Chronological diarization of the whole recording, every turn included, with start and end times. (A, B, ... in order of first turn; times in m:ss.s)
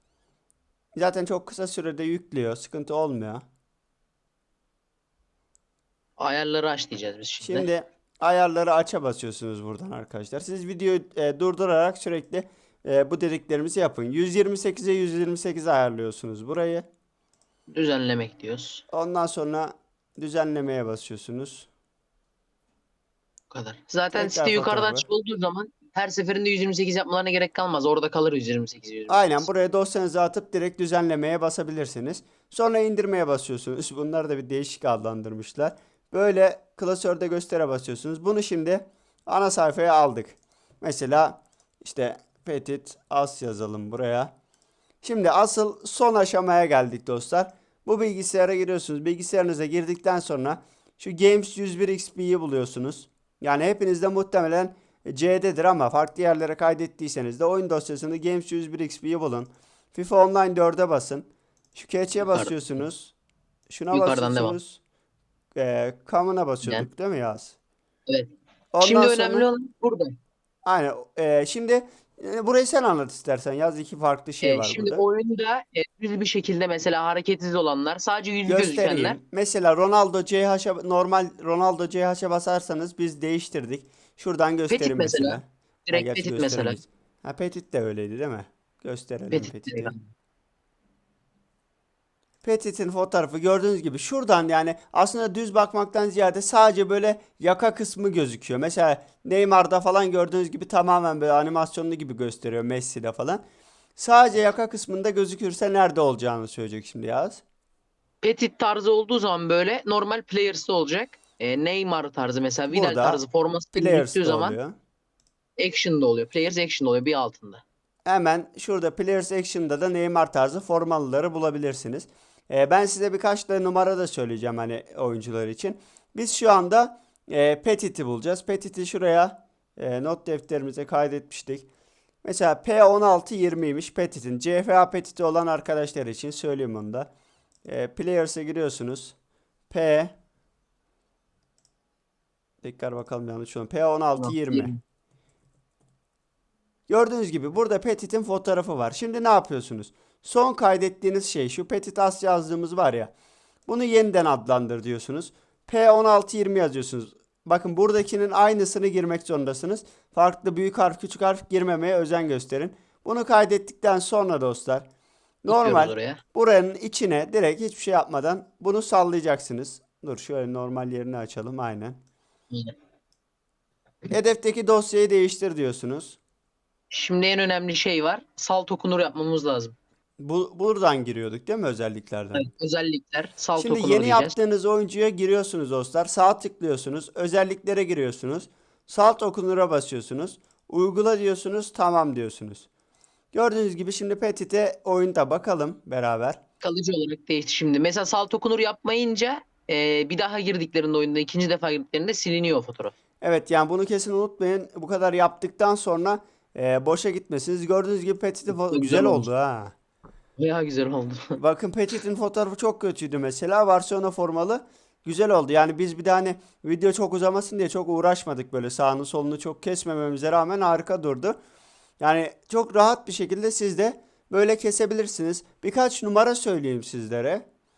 0:00.9-0:03.4 A
0:06.2-0:07.7 B
0:07.4-0:16.9 A
0:17.7-0:18.8 B
0:18.9-0:21.7 A
0:23.5-0:29.4 B
0:24.1-0:25.1 A
0:29.1-0:44.3 A
0:45.0-1:03.1 A
1:02.2-1:02.7 B
1:03.7-1:04.8 A
1:03.9-1:04.6 B
1:05.6-1:07.6 A
1:08.1-1:10.1 B
1:08.7-1:09.5 A
1:10.6-1:15.0 A
1:14.4-1:19.2 B
1:18.4-1:29.9 A
1:24.7-1:26.8 B
1:29.3-1:30.0 B
1:32.4-1:43.4 A
1:44.0-1:47.4 A
1:48.2-1:54.6 B
1:52.7-1:53.2 A
1:53.7-1:54.8 A
1:55.6-1:57.6 B
1:58.0-2:11.7 A
2:12.2-2:17.1 A
2:17.6-2:19.1 A
2:19.7-2:20.1 A
2:22.6-2:24.7 A
2:24.2-2:24.8 B
2:26.9-2:33.1 A
2:33.7-2:44.8 A
2:45.4-2:52.0 A
2:45.5-2:46.2 B
2:54.1-2:56.2 A
2:56.9-2:59.7 B
3:00.2-3:02.5 A
3:02.3-3:04.3 B
3:03.6-3:12.7 A
3:13.3-3:16.4 A
3:16.6-3:22.9 B
3:23.2-3:29.7 A
3:28.5-3:29.3 B
3:30.4-3:31.4 B
3:31.4-3:41.4 A
3:42.0-3:47.4 A